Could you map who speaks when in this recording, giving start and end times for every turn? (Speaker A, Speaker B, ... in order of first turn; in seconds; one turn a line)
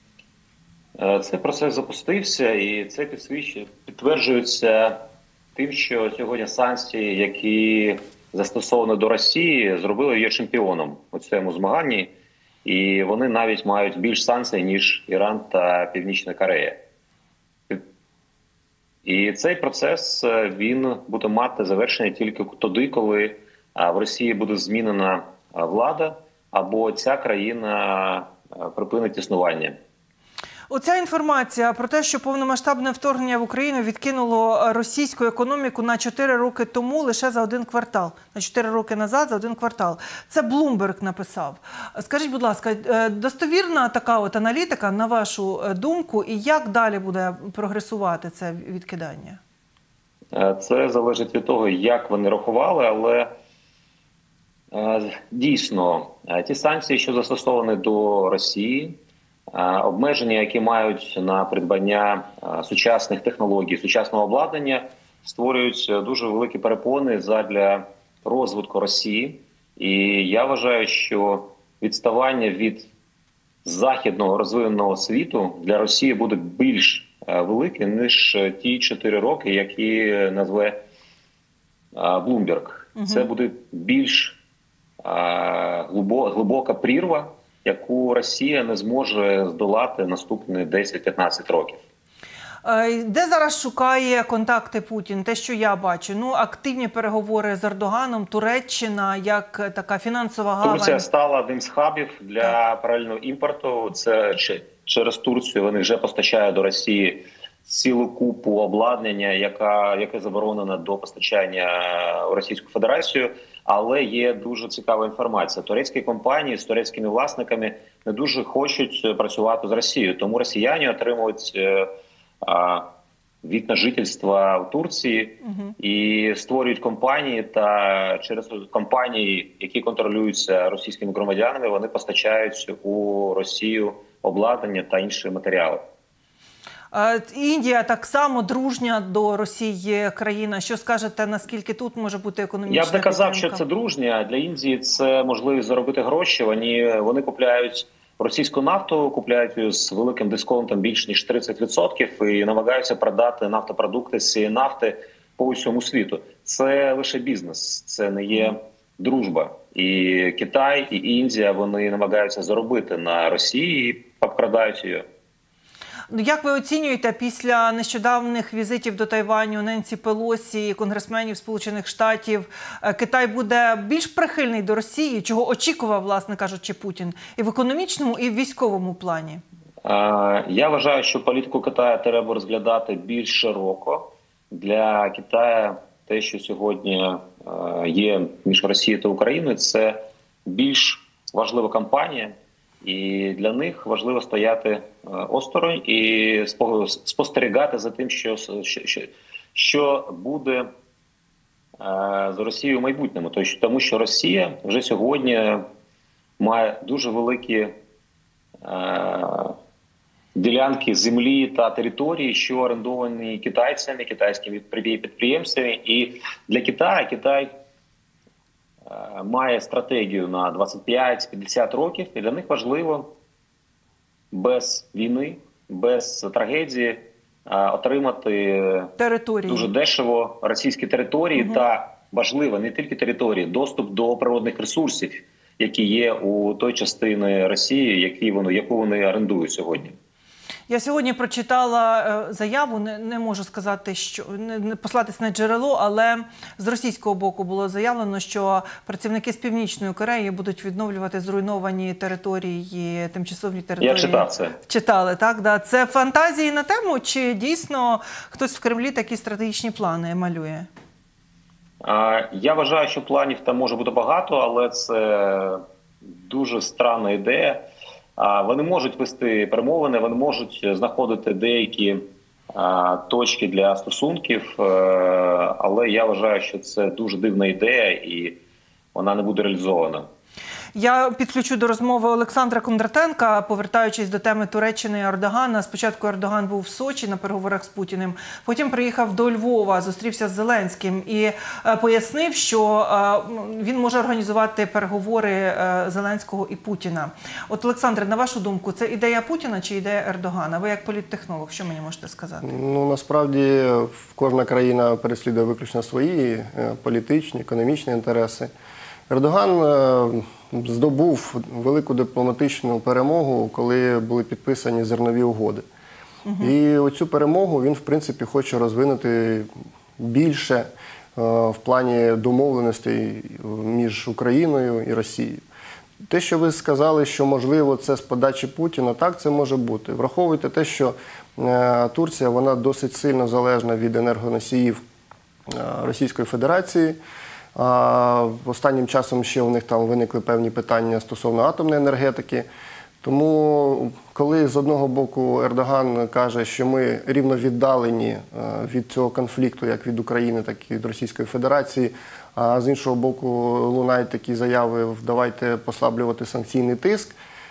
Speaker A: 1.0-5.0
Speaker A: 5.5-12.1
Speaker A: 12.6-16.8
Speaker A: 19.0-29.8
Speaker B: 30.7-49.4
Speaker A: 50.3-53.3
Speaker A: 54.7-58.9
Speaker A: 59.5-72.9
Speaker A: 73.6-80.8
Speaker A: 81.9-84.4
Speaker B: 83.0-83.3
Speaker A: 85.0-91.8
Speaker B: 92.6-101.0
Speaker A: 100.6-121.9
Speaker A: 122.4-122.8
Speaker A: 123.4-135.8
Speaker B: 125.4-125.7
Speaker B: 136.9-143.6
Speaker A: 142.7-165.0
Speaker B: 166.1-179.4
Speaker A: 179.8-200.7
Speaker A: 201.8-205.6
Speaker A: 206.4-207.7
Speaker A: 208.6-209.6
Speaker A: 210.3-217.5
Speaker A: 218.8-223.1
Speaker A: 224.3-228.9
Speaker B: 229.0-229.7
Speaker A: 229.5-239.9
Speaker B: 240.7-260.7
Speaker A: 253.8-254.6
Speaker A: 261.8-267.6
Speaker A: 268.2-272.0
Speaker A: 272.5-278.4
Speaker A: 278.9-280.1
Speaker B: 280.7-302.5
Speaker C: 302.4-308.5
Speaker C: 309.1-315.6
Speaker B: 316.2-316.5
Speaker C: 316.4-325.4
Speaker C: 326.1-334.8
Speaker C: 335.5-337.0
Speaker C: 337.5-342.4
Speaker C: 343.0-357.1